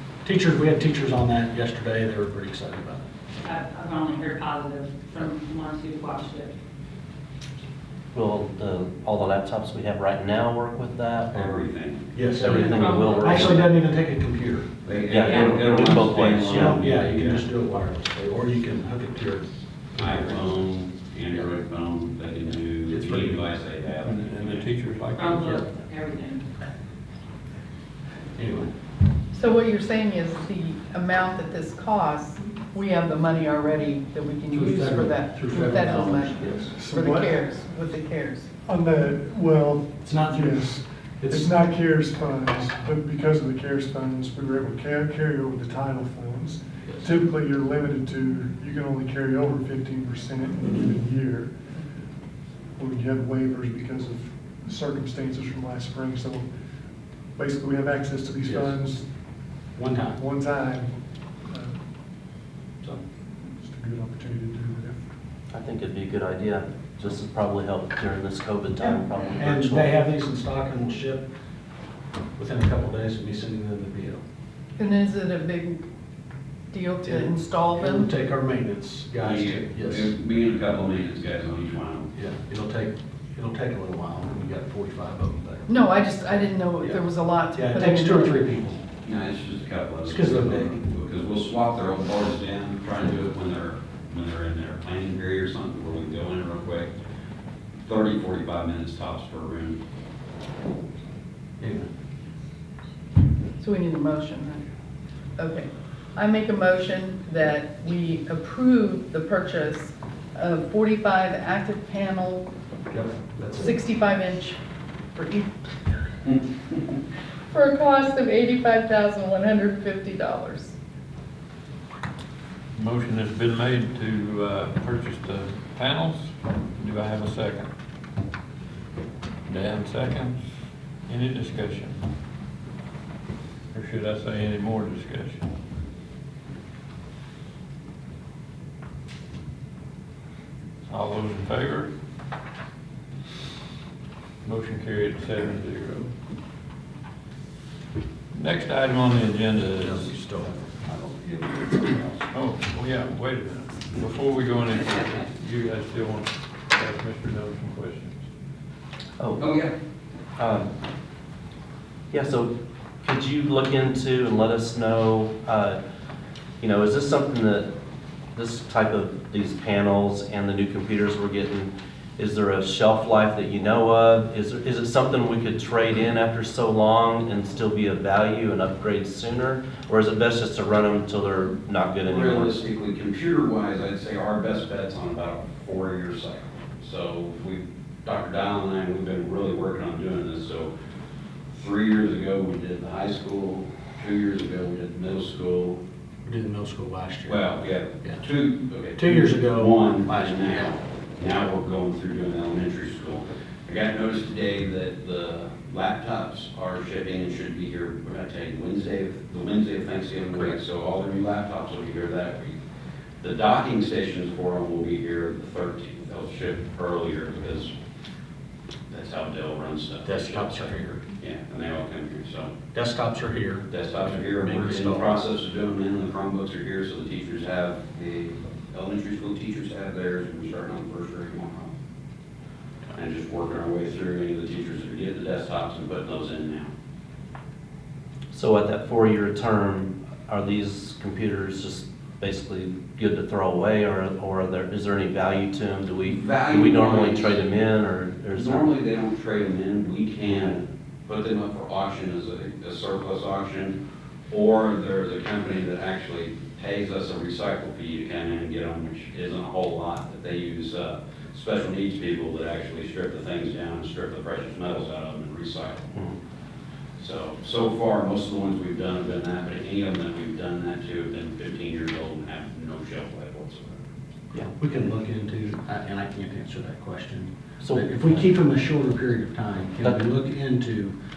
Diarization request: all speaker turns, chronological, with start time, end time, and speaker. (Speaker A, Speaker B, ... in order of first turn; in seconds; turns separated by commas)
Speaker A: 0.2-3.0, Speaker B: 3.4-6.5, Speaker C: 8.1-11.6, Speaker D: 11.3-12.1, Speaker A: 12.1-14.7, Speaker C: 12.4-13.7, Speaker B: 12.5-13.6, Speaker D: 14.8-17.4, Speaker C: 15.1-16.8, Speaker B: 15.2-15.6, Speaker A: 16.4-20.5, Speaker D: 20.0-24.7, Speaker A: 22.9-23.5, Speaker E: 24.0-25.6, Speaker B: 25.2-26.4, Speaker A: 28.4-28.7, Speaker F: 29.3-38.5, Speaker A: 34.5-36.8, Speaker G: 36.8-37.2, Speaker G: 38.6-40.8, Speaker A: 40.0-41.6, Speaker G: 41.3-51.5, Speaker A: 46.8-47.2, Speaker A: 50.7-51.0, Speaker G: 52.8-56.4, Speaker G: 57.4-59.0, Speaker A: 58.4-59.0, Speaker A: 59.8-60.2, Speaker G: 60.2-60.9, Speaker G: 63.7-65.0, Speaker C: 65.5-69.9, Speaker A: 68.8-71.3, Speaker A: 72.4-74.2, Speaker F: 74.8-75.8, Speaker F: 76.7-78.1, Speaker A: 77.0-80.1, Speaker D: 79.2-82.1, Speaker A: 82.1-85.7, Speaker F: 85.7-88.4, Speaker A: 86.3-87.0, Speaker A: 87.5-88.8, Speaker D: 89.0-96.9, Speaker A: 90.0-90.8, Speaker D: 97.8-99.8, Speaker A: 101.6-101.9, Speaker F: 103.6-104.6, Speaker F: 105.4-112.5, Speaker A: 112.9-113.8, Speaker F: 113.6-114.6, Speaker F: 115.1-115.7, Speaker F: 117.5-120.7, Speaker E: 122.8-127.7, Speaker E: 129.4-130.4, Speaker E: 131.1-132.0, Speaker E: 133.7-135.4, Speaker E: 140.9-141.9, Speaker E: 144.4-146.1, Speaker E: 148.3-150.1, Speaker A: 149.8-150.6, Speaker D: 150.9-152.3, Speaker E: 152.3-158.2, Speaker C: 159.2-159.4, Speaker D: 159.4-159.7, Speaker C: 160.4-160.7, Speaker C: 162.1-162.5, Speaker C: 163.0-165.8, Speaker C: 166.6-167.7, Speaker C: 168.3-182.5, Speaker D: 182.0-190.7, Speaker D: 191.5-195.8, Speaker A: 196.2-197.5, Speaker D: 197.2-212.6, Speaker A: 198.9-200.6, Speaker D: 213.2-217.7, Speaker D: 218.9-222.6, Speaker A: 220.0-221.0, Speaker A: 222.7-225.2, Speaker D: 223.7-231.7, Speaker D: 232.9-236.7, Speaker C: 238.3-248.7, Speaker D: 246.0-247.6, Speaker D: 248.3-253.8, Speaker D: 254.3-265.9, Speaker D: 267.0-273.8, Speaker A: 274.6-280.9, Speaker C: 277.6-278.3